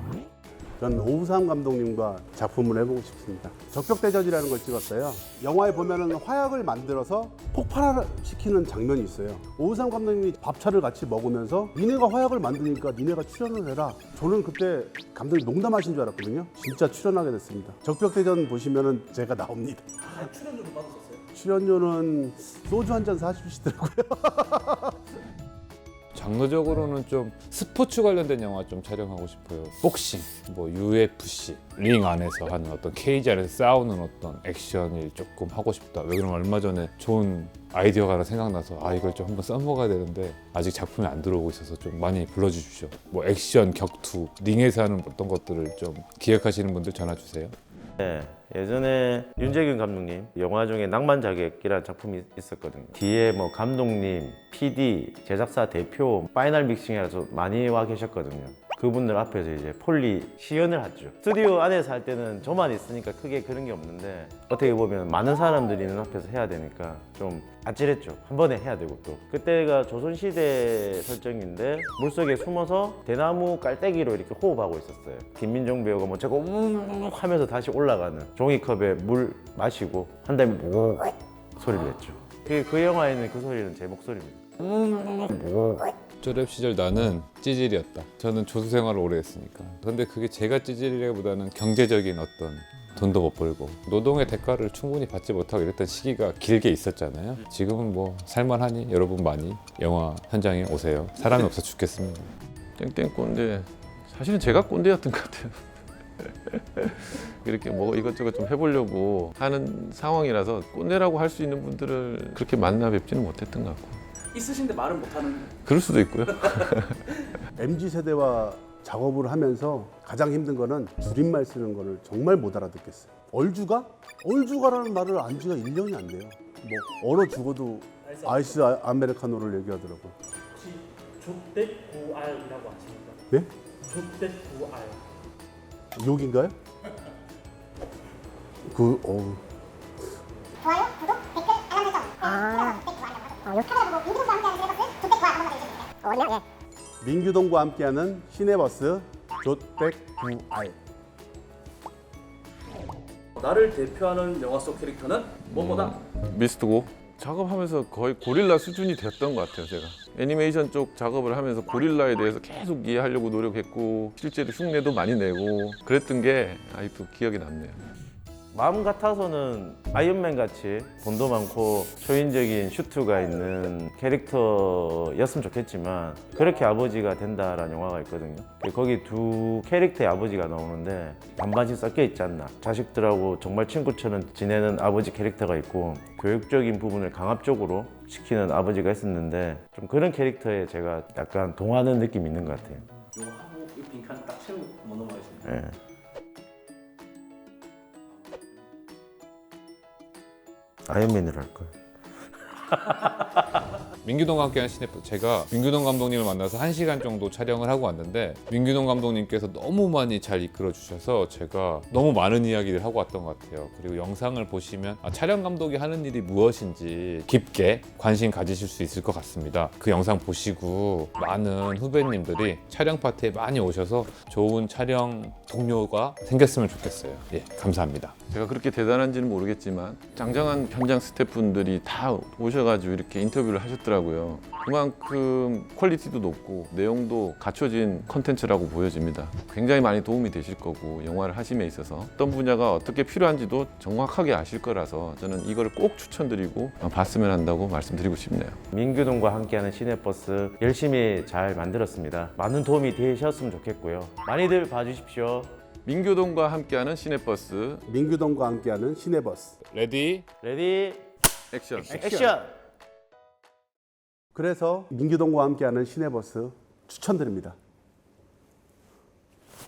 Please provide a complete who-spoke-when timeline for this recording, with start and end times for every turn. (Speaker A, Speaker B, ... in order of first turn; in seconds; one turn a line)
Speaker A: 0.8-20.2
Speaker B: 20.2-21.2
Speaker A: 21.3-25.0
Speaker C: 26.1-47.5
Speaker D: 48.0-85.9
Speaker C: 86.2-102.3
Speaker E: 102.8-105.6
Speaker E: 106.2-114.0
Speaker B: 114.3-115.5
Speaker E: 115.6-117.1
Speaker A: 117.5-130.2
Speaker B: 128.1-128.6
Speaker B: 130.6-133.2
Speaker B: 133.9-135.0
Speaker A: 135.9-136.6
Speaker A: 138.7-139.4
Speaker F: 140.6-146.4
Speaker A: 147.0-150.8
Speaker B: 153.4-155.9
Speaker E: 155.5-167.8
Speaker D: 168.5-192.9
Speaker B: 193.2-195.4
Speaker D: 195.4-195.8
Speaker D: 200.9-201.8
Speaker D: 202.4-203.7
Speaker C: 204.0-228.2
Speaker E: 228.3-248.6
Speaker D: 248.7-255.5
Speaker E: 255.8-257.8
Speaker A: 257.9-259.6
Speaker C: 259.7-260.2
Speaker D: 260.4-261.1
Speaker E: 261.5-262.0
Speaker A: 261.9-262.4
Speaker D: 261.9-262.5
Speaker A: 264.3-267.6